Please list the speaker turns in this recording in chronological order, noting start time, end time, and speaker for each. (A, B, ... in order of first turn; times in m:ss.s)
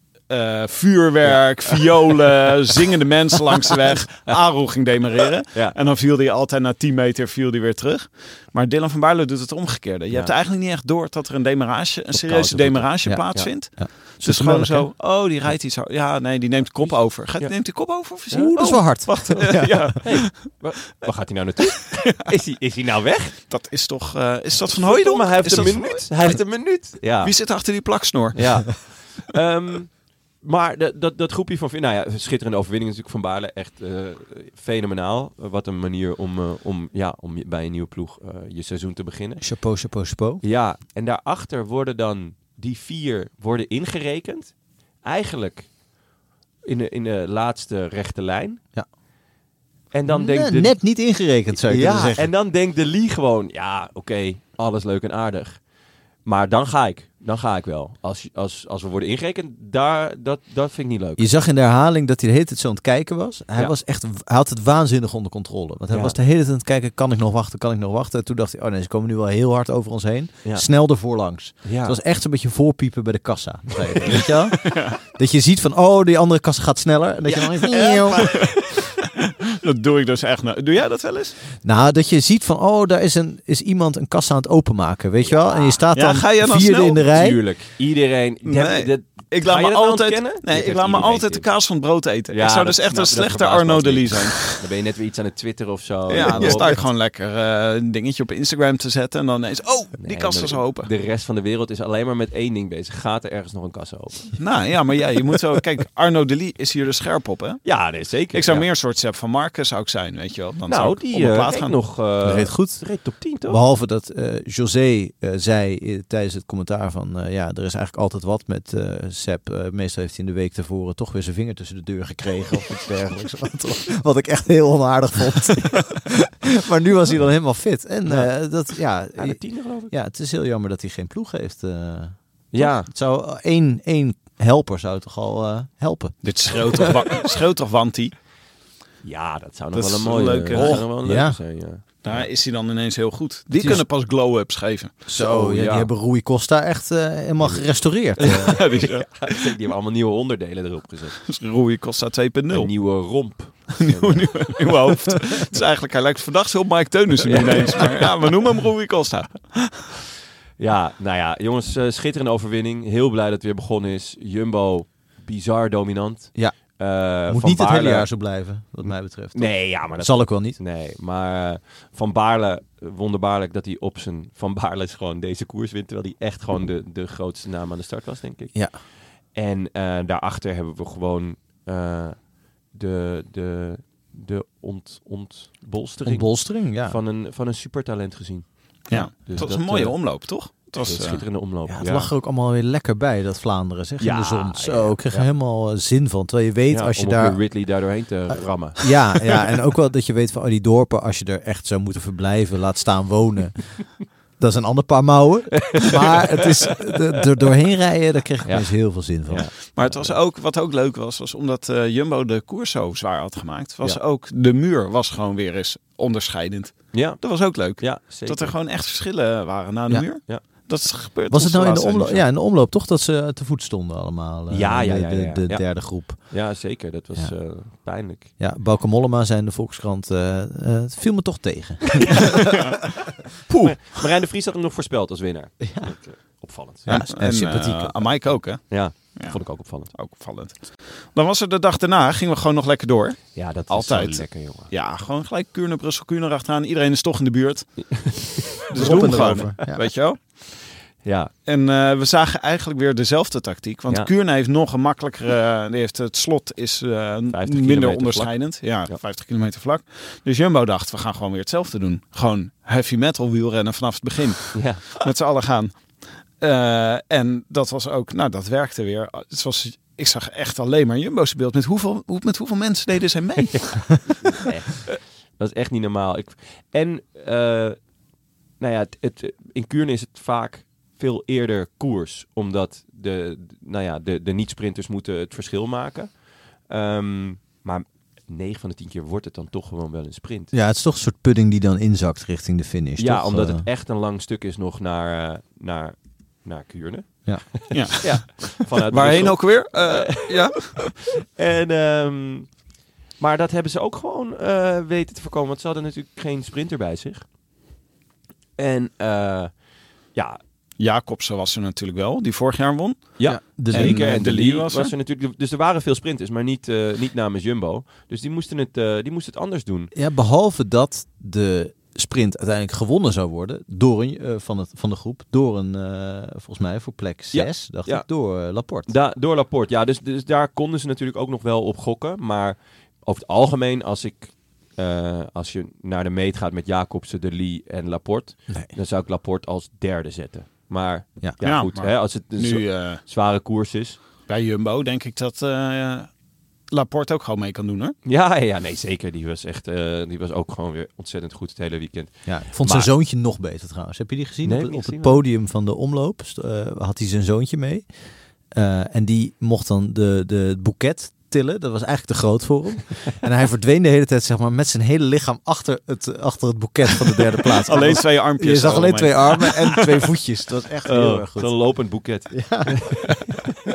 0:00.3-0:20.6 A
0:01.2-0:01.8 B
0:12.1-0:13.5 B
0:13.0-0:14.9 C
0:16.8-0:23.4 B
0:18.3-0:19.9 C
0:23.5-0:26.4 A
0:24.7-0:27.5 B
0:27.2-0:28.8 A
0:28.3-0:39.4 B
0:39.4-0:40.4 C
0:40.4-0:45.7 B
0:46.6-0:48.6 B
0:49.9-0:55.6 B
0:50.1-0:52.3 C
0:56.2-1:01.3 B
1:01.2-1:18.5 C
1:05.9-1:06.2 B
1:10.4-1:12.0 B
1:14.6-1:14.9 A
1:17.4-1:18.5 B
1:17.6-1:18.8 A
1:19.6-1:21.5 A
1:21.6-1:27.4 C
1:25.2-1:25.8 B
1:25.9-1:27.1 A
1:27.0-1:31.5 B
1:28.4-1:34.6 A
1:32.3-1:36.8 B
1:36.1-1:40.9 A
1:36.2-1:36.8 C
1:40.0-1:44.4 B
1:44.4-1:51.8 A
1:47.6-1:48.7 B
1:50.7-1:53.6 B
1:52.2-2:16.9 C
2:08.1-2:08.3 B
2:09.2-2:09.9 B
2:12.5-2:12.9 B
2:16.2-2:18.1 A
2:19.0-2:22.3 B
2:19.7-2:20.8 A
2:20.5-2:21.4 C
2:22.0-2:25.6 A
2:23.5-2:23.8 C
2:25.1-2:28.6 C
2:25.2-2:25.9 B
2:27.4-2:31.2 B
2:28.2-2:29.4 A
2:31.2-2:32.7 A
2:32.5-2:34.7 B
2:33.8-2:39.9 A
2:37.2-2:38.1 B
2:40.6-2:48.1 B
2:46.3-2:50.6 C
2:48.8-3:12.1 B
2:58.5-2:58.8 C
3:06.0-3:07.0 C
3:08.9-3:11.2 A
3:11.6-3:17.6 C
3:14.0-3:15.3 B
3:16.7-3:19.2 B
3:18.3-3:29.5 C
3:25.7-3:27.0 B
3:28.4-3:30.2 B
3:29.7-3:42.2 A
3:36.9-3:38.5 B
3:41.3-3:46.6 C
3:44.5-3:48.3 B
3:47.1-3:47.4 C
3:48.4-3:52.5 C
3:53.5-3:53.8 A
3:53.6-3:57.0 B
3:55.6-3:56.0 C
3:56.8-3:58.3 C
3:56.9-4:10.4 A
3:58.7-3:59.9 B
4:03.3-4:04.7 B
4:07.9-4:09.3 B
4:08.7-4:09.8 C
4:11.0-4:11.3 B
4:11.4-4:34.0 A
4:17.3-4:19.0 B
4:24.5-4:24.9 B
4:33.5-4:37.8 B
4:38.6-4:50.5 B
4:50.5-4:53.6 C
4:53.0-5:00.8 B
4:57.2-4:58.1 C
4:57.7-5:00.8 A
5:01.3-5:02.6 B
5:03.2-5:07.2 B
5:08.6-5:10.4 B
5:10.8-5:14.9 A
5:13.2-5:19.9 B
5:13.2-5:14.1 C
5:19.9-5:28.9 C
5:27.3-5:44.0 B
5:41.4-5:43.0 A
5:44.3-5:46.1 A
5:46.7-5:47.9 A
5:48.0-5:52.9 B
5:52.2-6:13.0 C
5:54.4-5:55.2 B
6:07.7-6:09.8 A
6:10.8-6:13.2 B